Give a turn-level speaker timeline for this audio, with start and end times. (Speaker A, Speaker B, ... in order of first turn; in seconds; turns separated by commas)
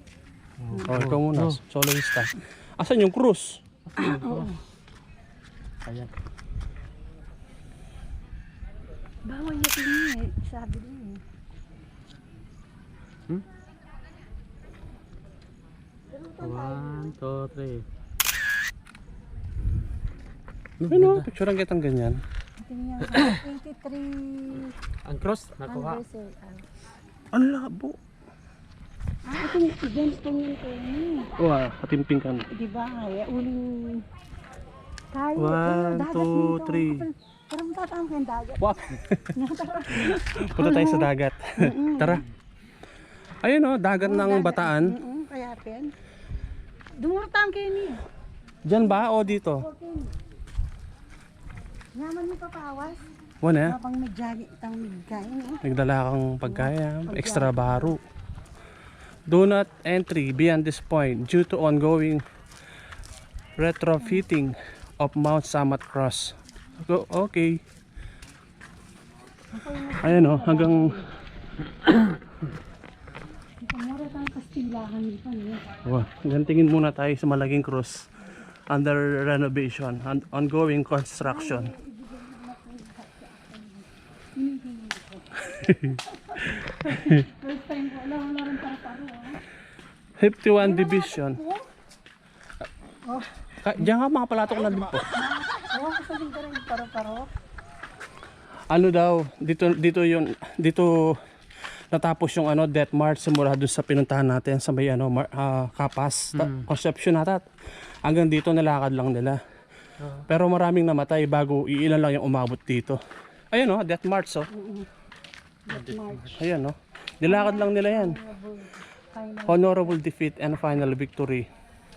Speaker A: 0.6-1.6, Speaker B: 0.9-3.6, Speaker A: 3.9-4.6, Speaker C: 4.0-4.6, Speaker C: 9.3-11.2, Speaker C: 16.1-17.2, Speaker A: 16.4-17.9, Speaker A: 19.6-19.9, Speaker A: 20.8-21.3, Speaker B: 20.9-22.2, Speaker C: 22.6-24.7, Speaker A: 25.1-26.0, Speaker C: 25.6-26.6, Speaker B: 27.3-28.0, Speaker C: 29.3-31.3, Speaker B: 31.4-32.5, Speaker C: 32.5-34.0, Speaker C: 35.1-38.8, Speaker B: 35.4-37.0, Speaker B: 38.6-39.3, Speaker C: 39.3-42.2, Speaker B: 39.9-42.2, Speaker B: 43.4-45.0, Speaker C: 44.0-45.9, Speaker C: 47.0-48.0, Speaker B: 48.7-49.7, Speaker C: 49.0-50.1, Speaker C: 52.0-53.0, Speaker B: 53.4-53.8, Speaker C: 53.6-55.6, Speaker B: 55.6-58.0, Speaker C: 56.5-58.0, Speaker B: 59.3-62.2, Speaker B: 63.6-67.6, Speaker C: 69.5-71.0, Speaker B: 70.0-71.0, Speaker C: 73.6-75.6, Speaker B: 75.8-78.1, Speaker B: 78.7-81.7, Speaker C: 81.2-89.4, Speaker B: 85.5-86.0, Speaker B: 90.2-91.4, Speaker C: 90.6-91.7, Speaker C: 93.0-93.5, Speaker B: 93.6-95.2, Speaker C: 95.1-97.3, Speaker B: 98.7-101.2, Speaker B: 101.9-107.5, Speaker A: 106.3-106.7, Speaker B: 108.0-109.4, Speaker A: 110.0-110.3, Speaker B: 110.3-113.0, Speaker B: 113.5-114.5, Speaker C: 114.5-114.9, Speaker C: 115.7-116.4, Speaker A: 115.7-116.4, Speaker B: 116.4-118.2, Speaker C: 117.2-120.0, Speaker B: 119.5-121.5